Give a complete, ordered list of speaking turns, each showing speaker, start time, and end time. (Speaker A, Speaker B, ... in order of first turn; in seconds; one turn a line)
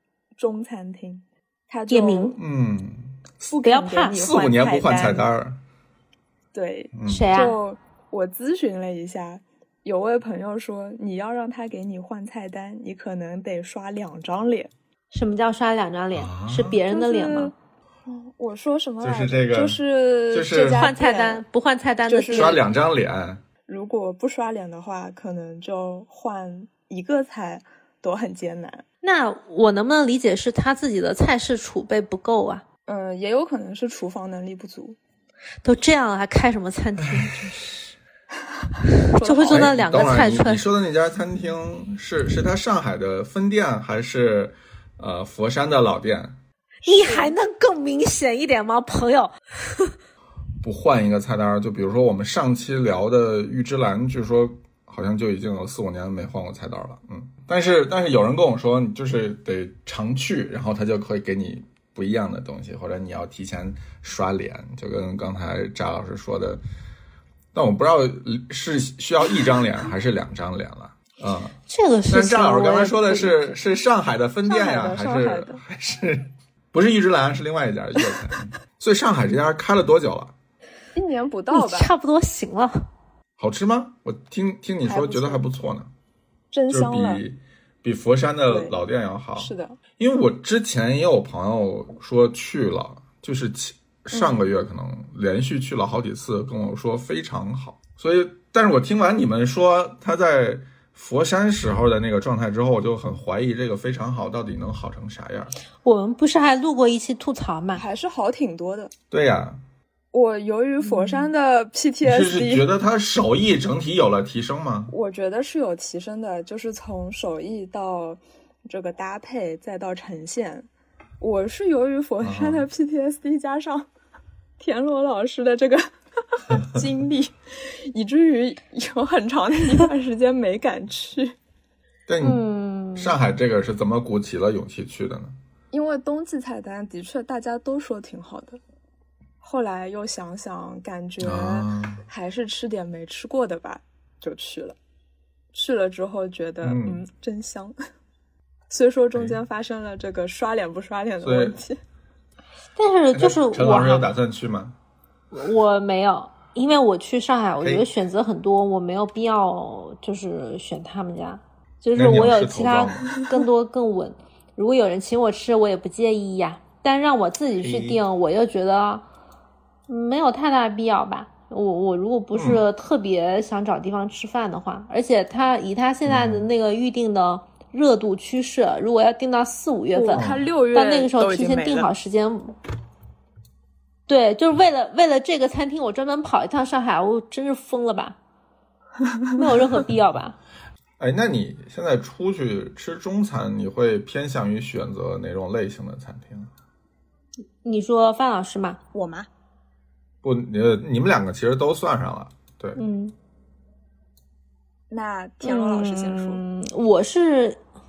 Speaker A: 0.4-2.4
Speaker B: 1.9-2.4
Speaker C: 2.4-3.2
Speaker A: 3.5-5.2
Speaker B: 3.6-4.2
Speaker C: 4.1-5.6
Speaker A: 6.5-14.7
Speaker C: 6.9-7.2
Speaker B: 7.1-7.6
Speaker B: 15.1-17.5
Speaker C: 16.1-16.8
Speaker A: 16.9-17.5
Speaker A: 18.1-21.4
Speaker C: 19.0-19.8
Speaker C: 20.3-20.9
Speaker B: 20.7-22.6
Speaker A: 22.1-22.6
Speaker C: 22.3-23.4
Speaker A: 23.7-28.8
Speaker B: 29.0-32.6
Speaker A: 32.9-35.0
Speaker B: 35.6-37.9
Speaker A: 39.0-39.8
Speaker B: 39.2-40.6
Speaker C: 39.5-46.4
Speaker B: 46.8-49.9
Speaker A: 46.9-47.3
Speaker C: 50.6-66.6
Speaker C: 67.5-71.5
Speaker B: 71.7-73.5
Speaker C: 72.1-80.3
Speaker A: 74.5-75.6
Speaker A: 80.9-81.9
Speaker B: 81.5-82.8
Speaker C: 83.4-85.9
Speaker A: 84.8-85.5
Speaker A: 86.5-87.2
Speaker C: 86.7-105.5
Speaker A: 88.5-88.8
Speaker A: 89.4-89.8
Speaker A: 94.1-94.5
Speaker B: 105.8-107.8
Speaker A: 107.7-108.9
Speaker C: 109.1-109.6
Speaker A: 110.1-112.7
Speaker B: 110.8-111.3
Speaker C: 112.0-114.9
Speaker A: 114.9-120.7
Speaker A: 121.2-123.9
Speaker C: 122.2-122.7
Speaker A: 124.6-131.3
Speaker C: 132.1-132.4
Speaker B: 132.2-133.1
Speaker C: 132.9-135.3
Speaker A: 135.7-138.6
Speaker A: 139.4-144.8
Speaker C: 141.2-142.0
Speaker A: 145.5-147.7
Speaker C: 146.6-147.0
Speaker A: 148.7-151.8
Speaker C: 151.2-151.6
Speaker B: 152.8-154.1
Speaker C: 153.1-154.7
Speaker B: 155.3-169.0
Speaker C: 157.6-157.9
Speaker C: 161.9-163.2
Speaker C: 167.6-168.0
Speaker B: 169.9-182.5
Speaker C: 172.3-172.6
Speaker C: 176.1-176.5
Speaker A: 179.9-181.9
Speaker C: 180.1-180.4
Speaker B: 184.1-188.2
Speaker B: 189.3-190.4
Speaker C: 191.0-196.5
Speaker B: 197.6-198.8
Speaker A: 198.9-199.3
Speaker C: 200.2-202.8
Speaker B: 202.8-203.1
Speaker A: 204.9-206.4
Speaker B: 205.4-207.6